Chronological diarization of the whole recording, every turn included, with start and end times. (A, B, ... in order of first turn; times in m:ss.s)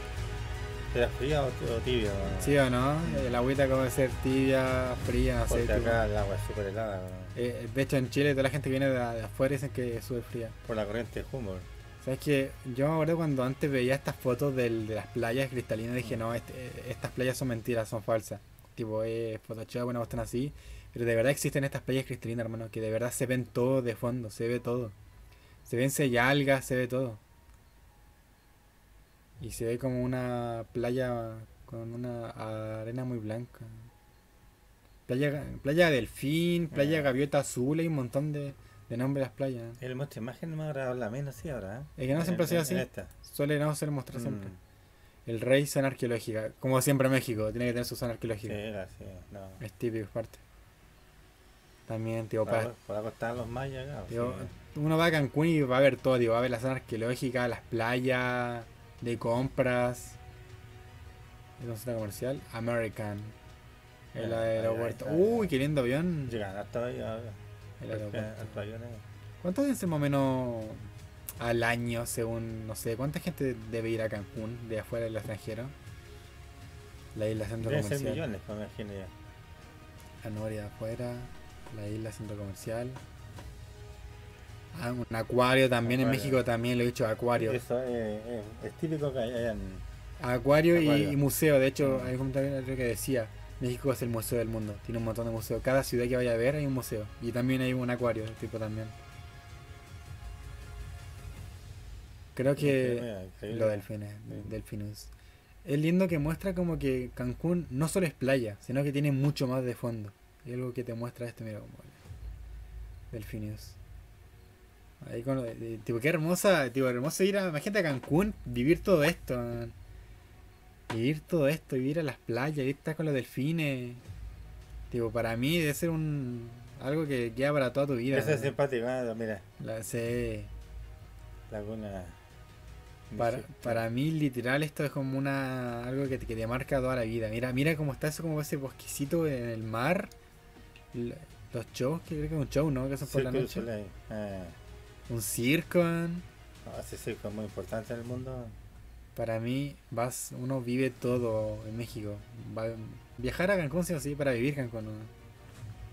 0:00.9-0:03.4 A
0:02.4-0:06.0 B
0:05.5-0:07.4 A
0:07.3-0:10.6 B
0:10.6-0:11.7 A
0:12.0-0:24.9 B
0:16.0-0:16.2 A
0:25.6-0:27.2 B
0:29.4-0:33.9 B
0:35.1-0:39.8 B
0:36.7-0:37.1 A
0:39.8-0:43.1 A
0:42.0-0:44.5 B
0:44.1-0:44.6 A
0:45.2-0:48.6 B
0:48.4-0:49.6 A
0:49.6-0:50.4 B
0:51.9-0:52.7 B
0:52.4-0:54.5 A
0:54.1-1:00.2 B
1:01.6-1:03.4 B
1:04.1-1:06.4 B
1:04.1-1:05.5 A
1:06.3-1:09.0 A
1:07.8-1:08.6 B
1:09.4-1:15.7 B
1:17.1-1:18.2 B
1:17.6-1:19.1 A
1:20.2-1:23.0 B
1:24.7-1:27.6 B
1:25.8-1:26.4 A
1:27.4-1:29.8 A
1:30.2-1:39.0 B
1:30.7-1:31.2 A
1:31.8-1:32.1 A
1:42.3-1:45.1 B
1:42.6-1:44.5 A
1:45.6-1:52.0 B
1:53.1-1:53.8 B
1:55.0-1:59.7 B
2:00.9-2:04.0 B
2:04.9-2:08.6 B
2:08.1-2:09.4 A
2:09.6-2:10.5 B
2:11.5-2:12.2 A
2:13.1-2:13.8 A
2:13.2-2:20.1 B
2:20.9-2:23.7 B
2:23.0-2:24.6 A
2:25.1-2:26.2 B
2:26.6-2:28.6 A
2:29.1-2:35.1 B